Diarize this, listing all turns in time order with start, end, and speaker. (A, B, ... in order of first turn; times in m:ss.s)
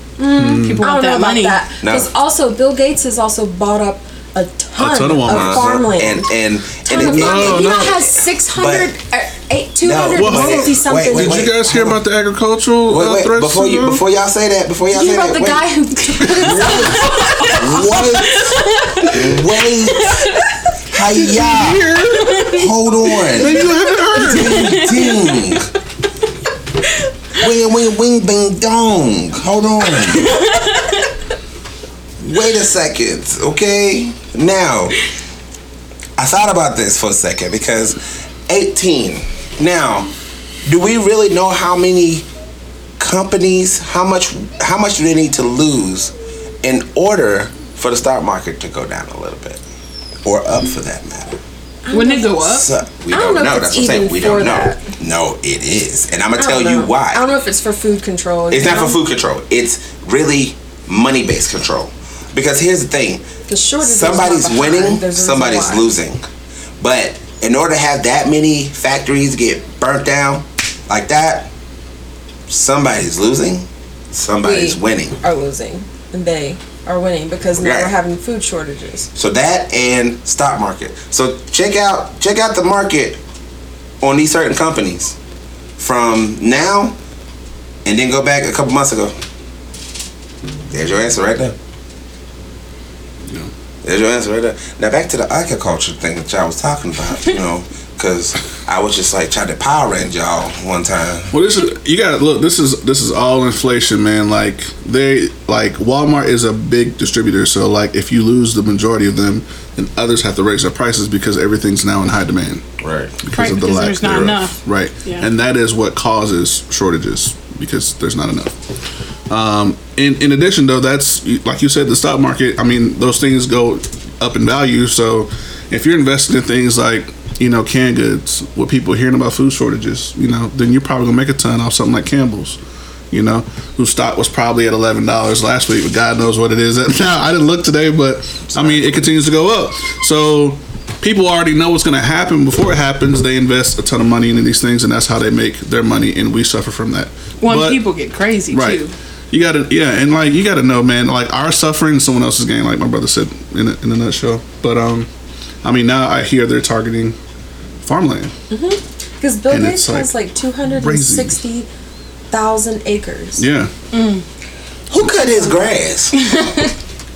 0:00.2-0:06.3 A
0:00.4-0:00.9 B
0:00.5-0:01.6 C
0:01.8-0:02.1 D
0:04.8-0:05.6 B
0:05.3-0:08.9 D
0:06.8-0:11.5 A
0:07.0-0:07.9 B
0:09.8-0:12.0 D
0:10.2-0:14.0 B
0:12.9-0:15.7 D
0:14.9-0:18.0 A
0:16.3-0:20.2 D
0:17.0-0:17.6 C
0:18.3-0:19.1 C
0:20.9-0:25.7 D
0:21.5-0:22.5 B
0:22.2-0:22.5 C
0:23.4-0:24.8 B
0:27.4-0:30.5 D
0:30.2-0:30.8 C
0:32.2-0:35.0 D
0:36.2-0:40.1 D
0:40.6-0:42.2 D
0:43.0-0:49.6 D
0:50.2-0:51.4 D
0:51.8-0:54.8 A
0:51.9-0:52.7 C
0:52.5-0:57.2 D
0:56.4-0:59.0 A
0:58.5-1:03.2 D
1:03.5-1:05.9 A
1:03.8-1:06.2 D
1:06.8-1:11.5 D
1:12.5-1:15.2 D
1:14.4-1:19.1 A
1:17.5-1:17.9 D
1:19.1-1:23.2 D
1:24.0-1:25.2 D
1:25.8-1:27.0 D
1:27.8-1:29.2 D
1:30.7-1:31.5 D
1:33.8-1:41.3 D
1:41.3-1:52.6 B
1:52.8-1:53.5 D
1:53.2-1:58.5 B
1:53.3-1:55.3 C
1:59.3-2:12.6 B
2:13.1-2:27.8 B
2:18.5-2:19.1 D
2:27.4-2:28.9 C
2:28.5-2:35.1 B
2:35.6-2:37.2 B
2:37.8-2:38.3 B
2:38.5-2:41.7 A
2:39.5-2:40.1 B
2:40.6-2:41.4 B
2:42.3-2:43.4 A
2:43.4-2:43.7 B
2:43.9-2:44.2 C
2:44.9-2:46.2 D
2:45.4-2:45.7 A
2:46.2-2:46.7 C